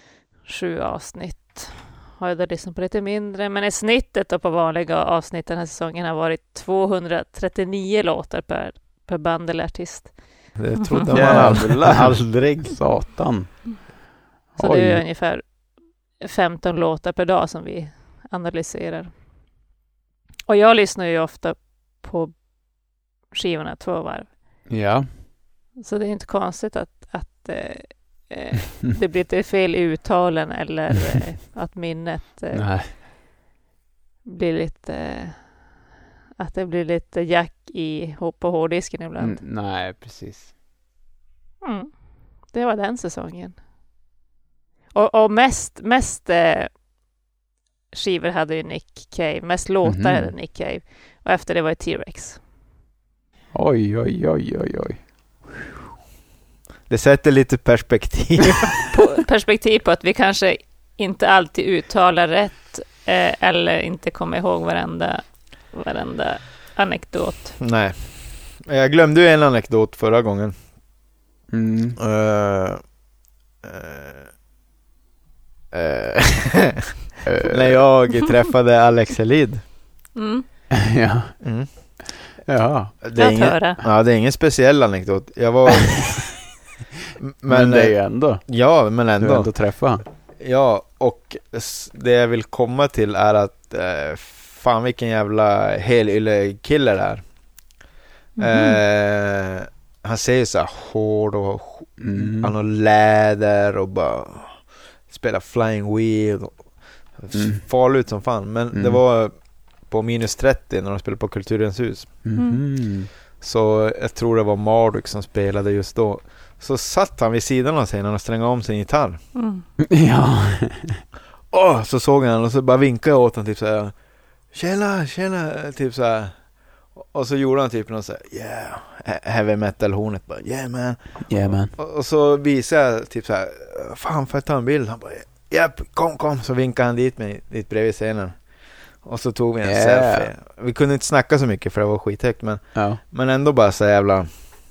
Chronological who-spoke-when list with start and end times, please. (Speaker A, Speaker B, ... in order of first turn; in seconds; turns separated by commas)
Speaker A: 0.5-11.2, Speaker B: 10.6-12.8, Speaker C: 11.1-13.9, Speaker C: 14.6-15.0, Speaker A: 14.6-15.7, Speaker A: 16.2-19.1, Speaker A: 20.5-24.4, Speaker C: 24.7-25.1, Speaker A: 25.8-32.7, Speaker C: 32.5-32.9, Speaker A: 34.2-35.8, Speaker A: 36.4-39.5, Speaker C: 39.2-40.5, Speaker A: 41.6-43.6, Speaker A: 44.9-46.8, Speaker A: 47.9-52.4, Speaker C: 49.8-50.3, Speaker C: 53.5-55.5, Speaker B: 56.9-58.8, Speaker A: 58.9-67.6, Speaker B: 67.6-70.6, Speaker C: 71.5-72.0, Speaker B: 72.0-73.0, Speaker B: 73.6-74.3, Speaker B: 75.7-76.8, Speaker C: 77.3-77.8, Speaker B: 77.4-79.7, Speaker A: 80.2-80.5, Speaker C: 80.8-81.8, Speaker B: 81.4-81.7, Speaker C: 82.5-83.0, Speaker B: 83.0-86.3, Speaker A: 83.2-83.8, Speaker B: 87.2-89.7, Speaker C: 87.5-88.6, Speaker C: 89.2-90.0, Speaker B: 90.4-97.3, Speaker B: 98.4-112.2, Speaker A: 98.4-98.8, Speaker C: 102.0-102.5, Speaker C: 107.3-107.7, Speaker C: 108.7-109.0, Speaker C: 112.2-113.1, Speaker A: 112.4-112.6, Speaker B: 113.4-119.2, Speaker A: 119.3-119.7, Speaker C: 119.8-121.0, Speaker B: 121.5-124.0, Speaker B: 124.5-144.3, Speaker C: 131.3-131.7, Speaker C: 139.6-140.3, Speaker C: 142.7-143.0